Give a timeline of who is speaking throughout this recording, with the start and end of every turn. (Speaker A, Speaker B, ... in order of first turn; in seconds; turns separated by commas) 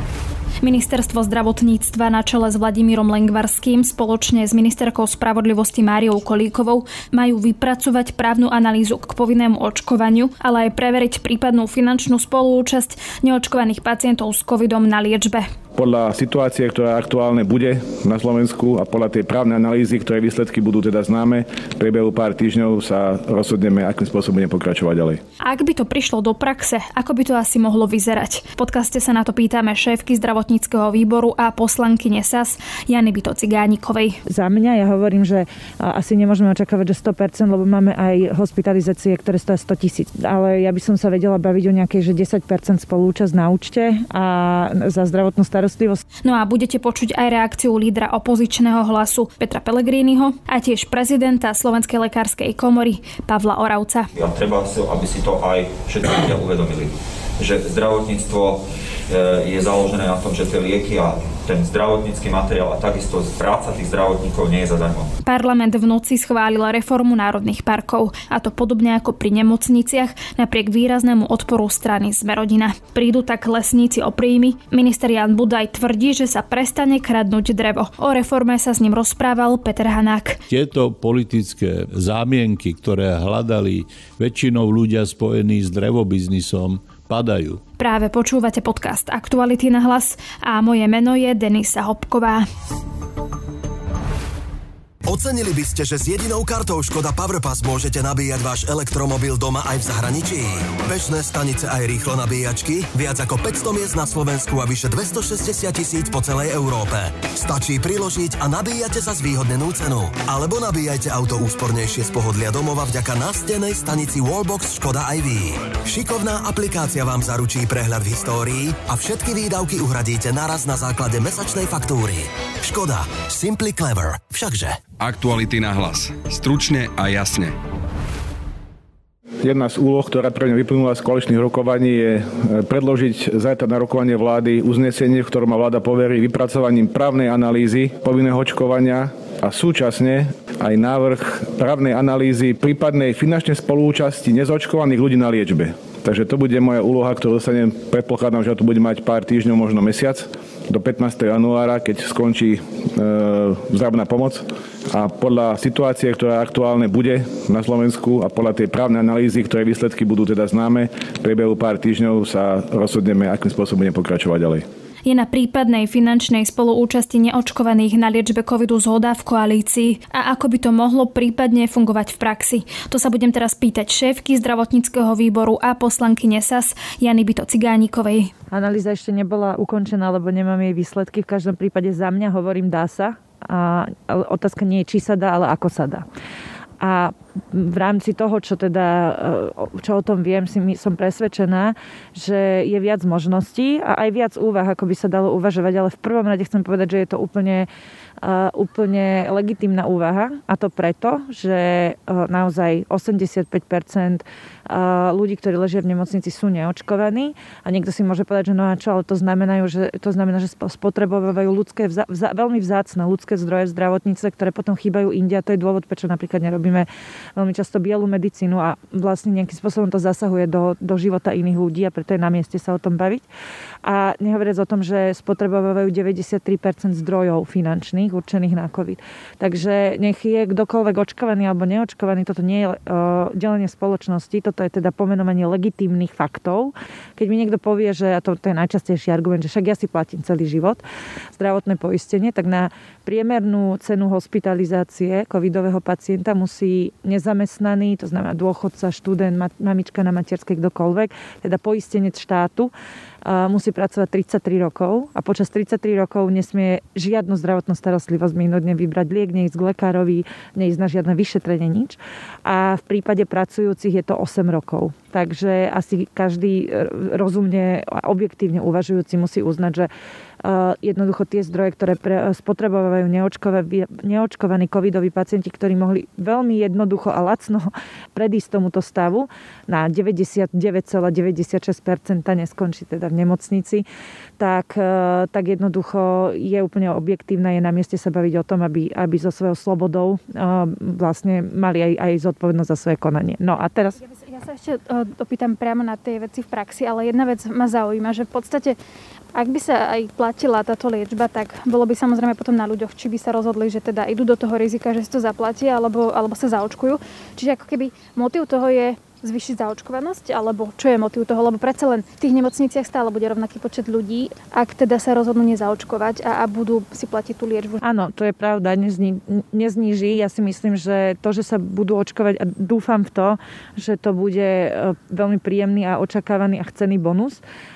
Speaker A: 0.6-15.5, Speaker B: 15.7-25.2, Speaker A: 25.4-34.2, Speaker C: 34.3-46.0, Speaker A: 46.2-54.1, Speaker D: 54.1-65.1, Speaker A: 65.2-80.4, Speaker E: 80.5-87.6, Speaker A: 87.8-92.5, Speaker F: 95.1-124.8, Speaker G: 125.0-127.5, Speaker B: 129.4-164.6, Speaker A: 165.0-178.3, Speaker C: 178.5-186.0, Speaker C: 186.8-197.7, Speaker C: 198.2-223.3, Speaker C: 223.8-240.8, Speaker C: 241.3-252.7, Speaker C: 253.2-269.9, Speaker C: 270.4-283.8, Speaker C: 284.4-293.9, Speaker A: 294.0-298.8, Speaker A: 299.3-317.8, Speaker C: 317.8-327.4